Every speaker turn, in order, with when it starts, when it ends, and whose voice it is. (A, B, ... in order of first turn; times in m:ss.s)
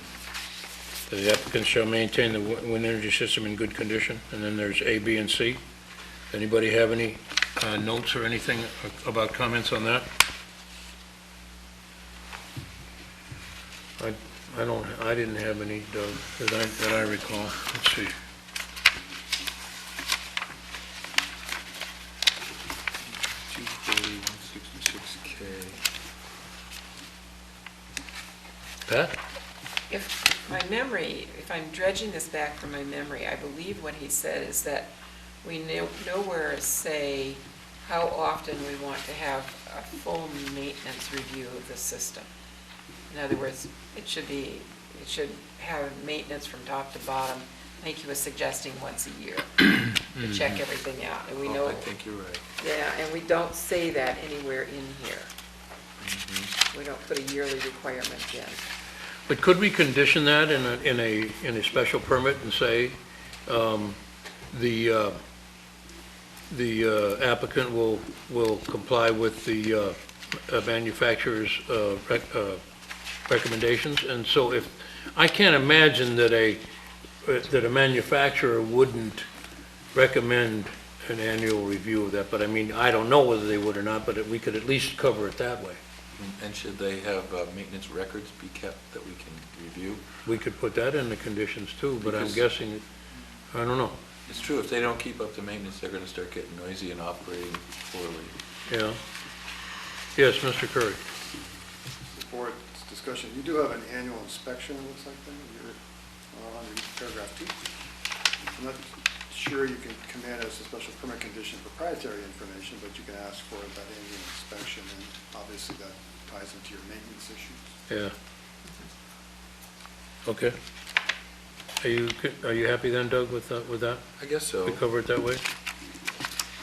0:01.1-0:05.6 A
0:06.3-0:10.1 A
0:14.0-0:18.1 A
0:23.1-0:25.8 B
0:28.9-0:29.2 A
0:29.9-0:42.3 C
0:43.1-0:51.9 C
0:51.4-0:52.4 B
0:52.6-0:55.3 C
0:56.0-0:56.5 B
0:56.7-0:58.6 C
0:59.3-1:04.0 A
1:04.5-1:05.2 A
1:06.5-1:12.6 A
1:13.3-1:16.6 A
1:17.2-1:19.3 A
1:19.9-1:25.8 A
1:26.2-1:30.0 B
1:30.2-1:32.8 A
1:32.0-1:32.4 B
1:33.5-1:34.0 A
1:34.3-1:38.3 B
1:38.7-1:39.0 A
1:40.2-1:41.0 A
1:42.1-1:45.8 D
1:46.3-1:47.6 D
1:48.6-1:57.7 D
2:00.2-2:00.6 A
2:01.8-2:04.0 A
2:04.2-2:04.8 B
2:04.6-2:05.4 A